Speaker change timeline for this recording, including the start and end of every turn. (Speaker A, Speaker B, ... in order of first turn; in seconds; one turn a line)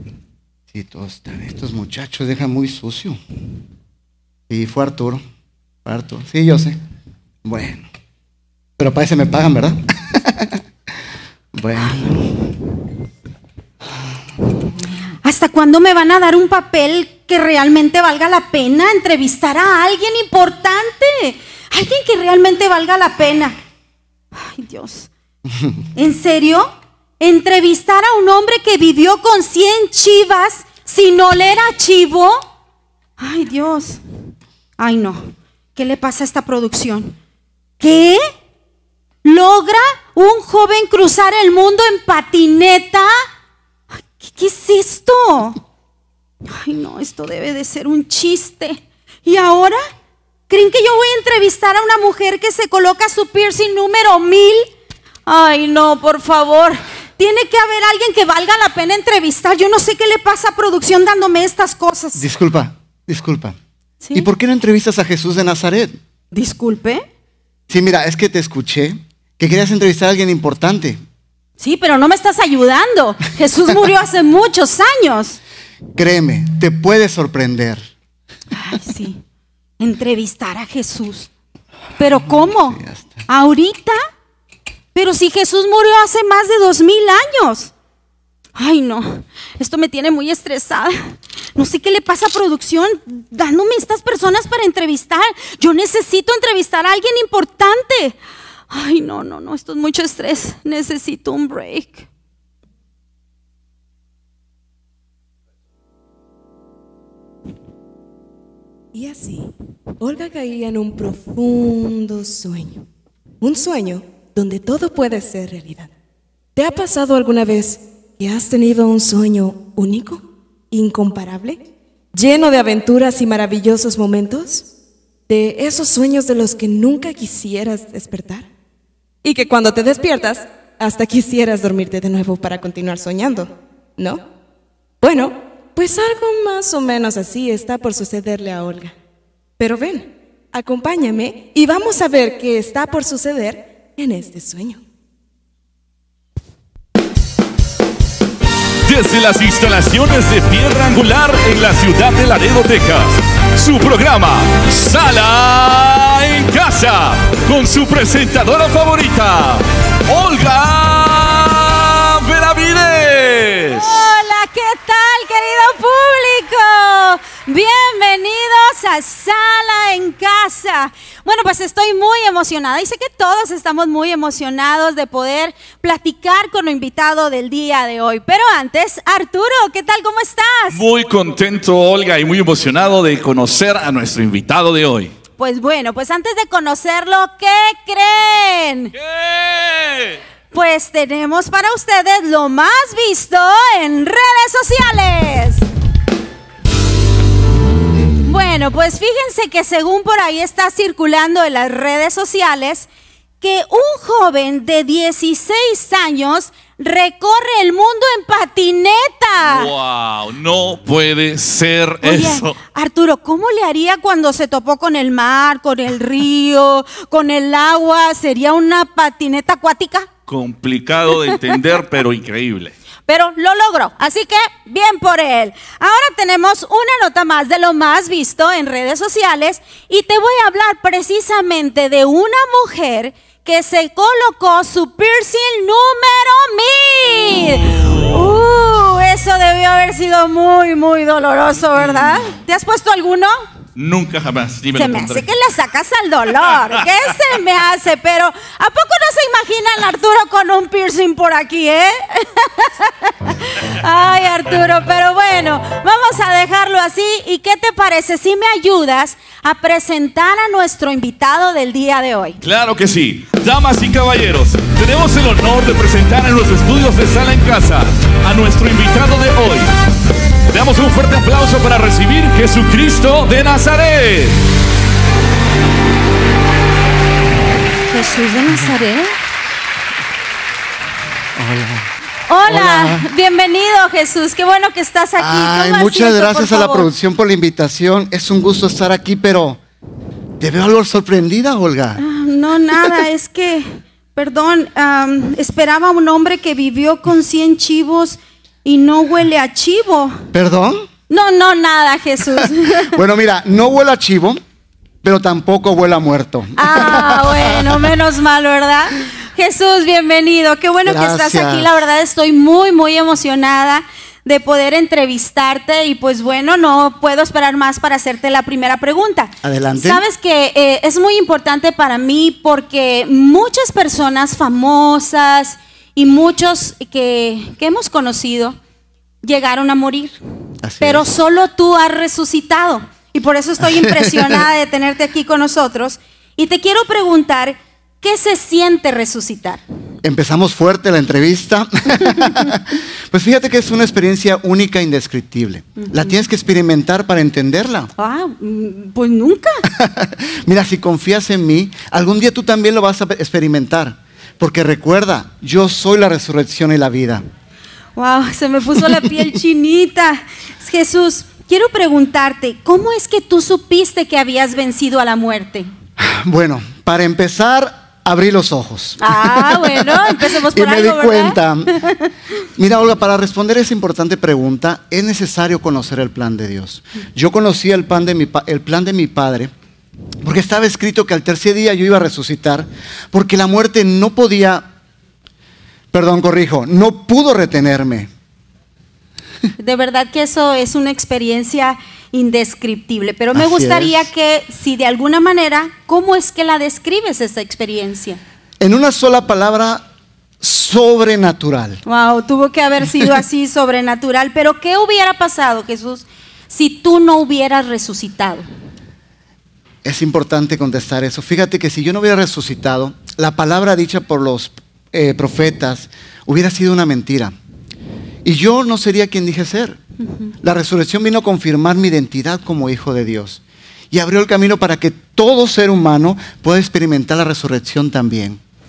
Speaker A: 0.7-3.2
Speaker A: 4.5-5.2
Speaker A: 5.8-6.8
Speaker A: 7.4-7.8
Speaker A: 8.8-10.6
Speaker A: 11.5-12.3
Speaker B: 15.2-23.6
Speaker B: 24.3-25.1
Speaker B: 25.9-32.4
Speaker B: 33.2-34.0
Speaker B: 34.8-37.1
Speaker B: 37.8-38.2
Speaker B: 39.2-43.1
Speaker B: 44.2-45.6
Speaker B: 46.5-49.8
Speaker B: 50.5-54.7
Speaker B: 55.2-62.2
Speaker A: 62.2-63.5
Speaker B: 64.0-64.3
Speaker A: 64.1-66.0
Speaker B: 66.3-67.0
Speaker A: 67.7-71.0
Speaker B: 71.6-75.4
Speaker A: 76.0-77.8
Speaker B: 78.5-79.2
Speaker B: 79.8-81.3
Speaker B: 82.0-84.0
Speaker A: 82.4-83.2
Speaker B: 84.9-87.7
Speaker B: 88.5-98.2
Speaker B: 98.7-102.1
Speaker C: 108.9-112.8
Speaker C: 113.4-115.9
Speaker C: 116.5-124.7
Speaker C: 125.3-128.5
Speaker C: 129.2-134.2
Speaker C: 135.0-138.9
Speaker C: 139.6-144.8
Speaker D: 148.8-164.0
Speaker B: 163.7-180.8
Speaker D: 180.7-185.1
Speaker B: 185.4-188.9
Speaker D: 188.9-190.2
Speaker B: 190.5-195.6
Speaker B: 198.2-202.9
Speaker B: 203.4-209.7
Speaker D: 209.4-212.6
Speaker B: 212.0-220.1
Speaker D: 220.3-222.7
Speaker B: 221.2-221.4
Speaker B: 223.1-243.4
Speaker D: 243.8-245.3
Speaker B: 244.7-262.4
Speaker D: 262.4-269.7
Speaker D: 270.5-274.4
Speaker B: 277.9-279.1
Speaker A: 281.4-281.9
Speaker B: 282.3-286.9
Speaker A: 282.5-283.0
Speaker A: 285.2-289.6
Speaker A: 290.4-292.0
Speaker B: 292.0-300.2
Speaker A: 300.3-300.9
Speaker B: 301.1-303.0
Speaker A: 302.9-304.4
Speaker A: 305.0-307.7
Speaker B: 306.6-328.6
Speaker A: 310.8-311.7
Speaker A: 319.4-320.0
Speaker B: 329.2-330.1
Speaker A: 330.6-331.1
Speaker B: 330.8-339.6
Speaker A: 333.8-334.3
Speaker A: 340.0-347.9
Speaker B: 345.8-346.2
Speaker B: 348.0-349.6
Speaker A: 349.8-357.2
Speaker B: 357.9-365.7
Speaker A: 366.0-371.7
Speaker B: 369.0-372.0
Speaker A: 372.6-379.5
Speaker A: 380.2-384.6
Speaker A: 385.9-388.1
Speaker B: 389.6-398.2
Speaker A: 393.3-394.0
Speaker A: 398.6-399.8
Speaker A: 400.4-401.8
Speaker B: 401.9-408.5
Speaker A: 409.8-417.3
Speaker A: 418.2-419.8
Speaker A: 420.4-428.4